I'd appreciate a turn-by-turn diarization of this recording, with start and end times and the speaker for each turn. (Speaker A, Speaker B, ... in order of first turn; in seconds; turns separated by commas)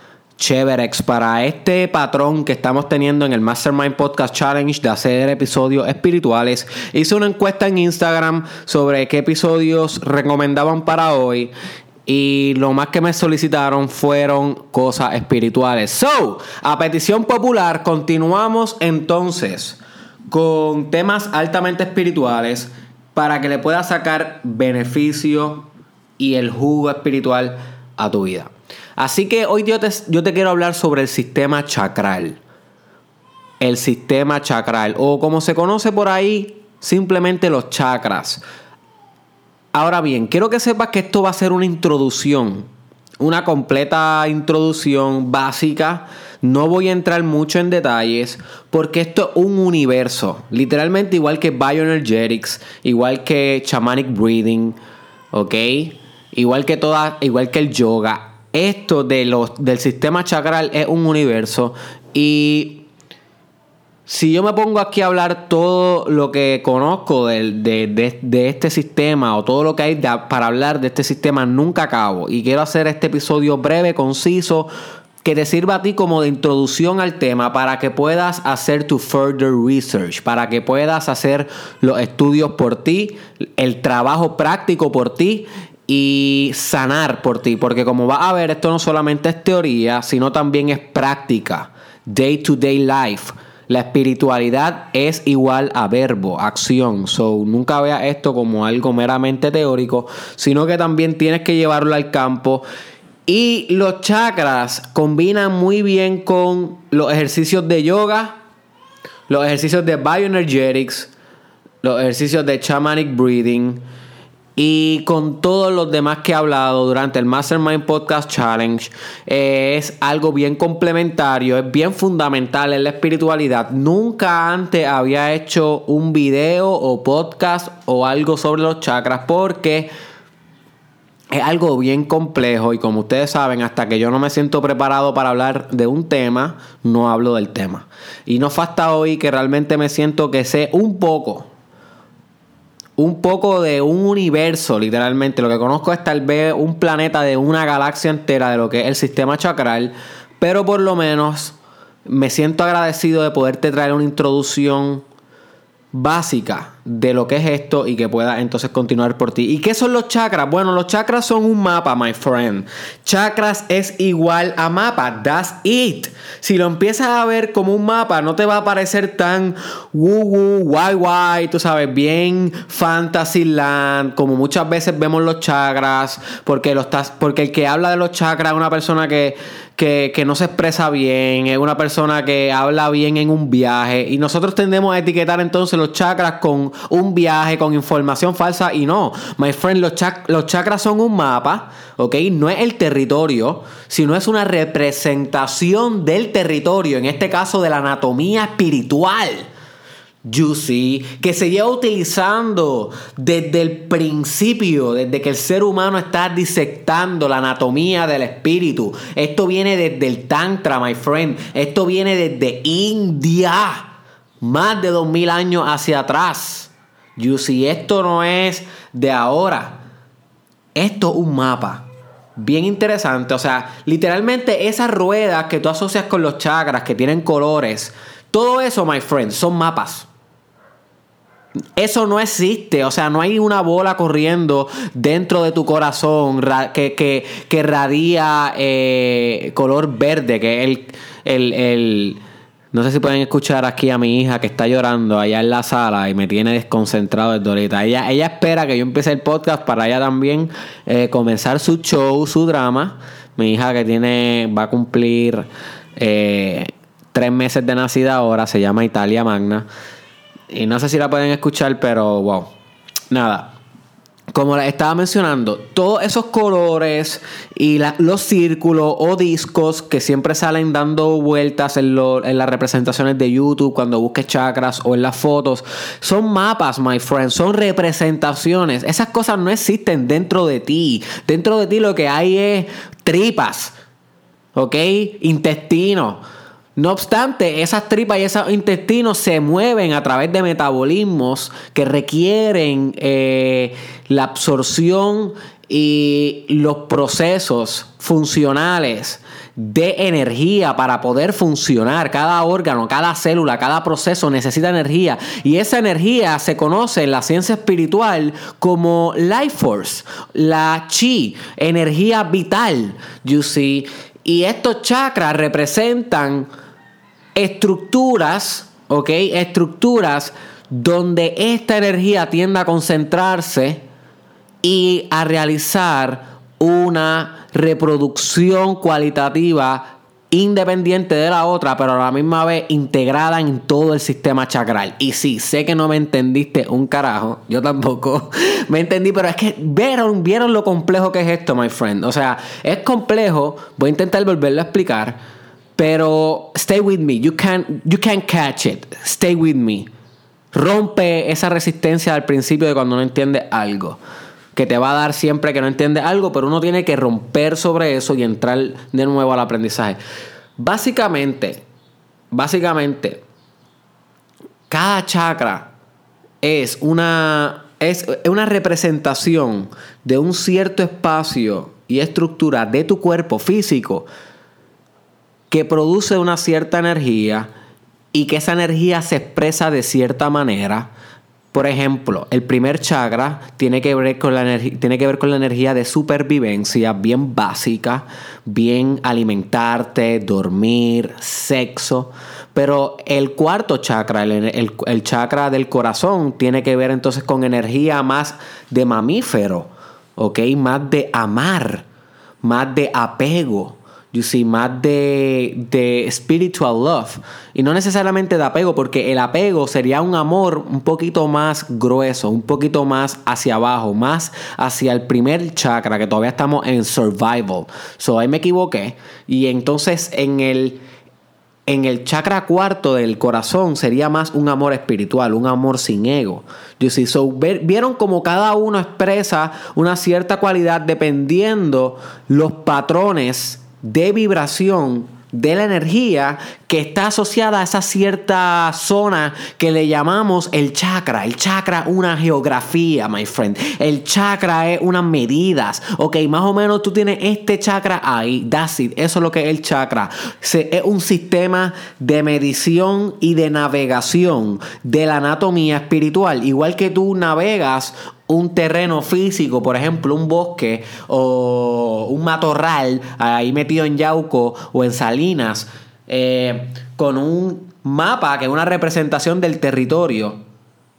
Speaker A: 0.4-11.5, Speaker A: 12.1-19.8, Speaker A: 20.3-32.4, Speaker A: 33.6-38.4, Speaker A: 39.7-42.7, Speaker A: 43.2-54.8, Speaker A: 55.3-62.9, Speaker A: 64.1-74.7, Speaker A: 75.2-102.7, Speaker A: 103.3-108.4, Speaker A: 109.3-111.1, Speaker A: 111.8-113.8, Speaker A: 114.6-129.9, Speaker A: 131.3-141.5, Speaker A: 143.0-155.0, Speaker A: 155.9-199.5, Speaker A: 200.2-219.8, Speaker A: 220.8-221.9, Speaker A: 222.4-230.1, Speaker A: 231.8-242.2, Speaker A: 242.7-259.7, Speaker A: 260.5-262.5, Speaker A: 263.1-263.6, Speaker A: 264.3-283.7, Speaker A: 284.6-286.2, Speaker A: 286.8-316.5, Speaker A: 317.4-323.8, Speaker A: 324.6-345.2, Speaker A: 345.8-349.9, Speaker A: 350.5-354.0, Speaker A: 354.5-360.0, Speaker A: 360.6-361.6, Speaker A: 362.3-363.2, Speaker A: 364.7-365.7, Speaker A: 366.4-374.1, Speaker A: 375.5-377.5, Speaker A: 378.1-380.9, Speaker A: 381.5-401.9, Speaker A: 402.4-420.8, Speaker A: 421.7-470.4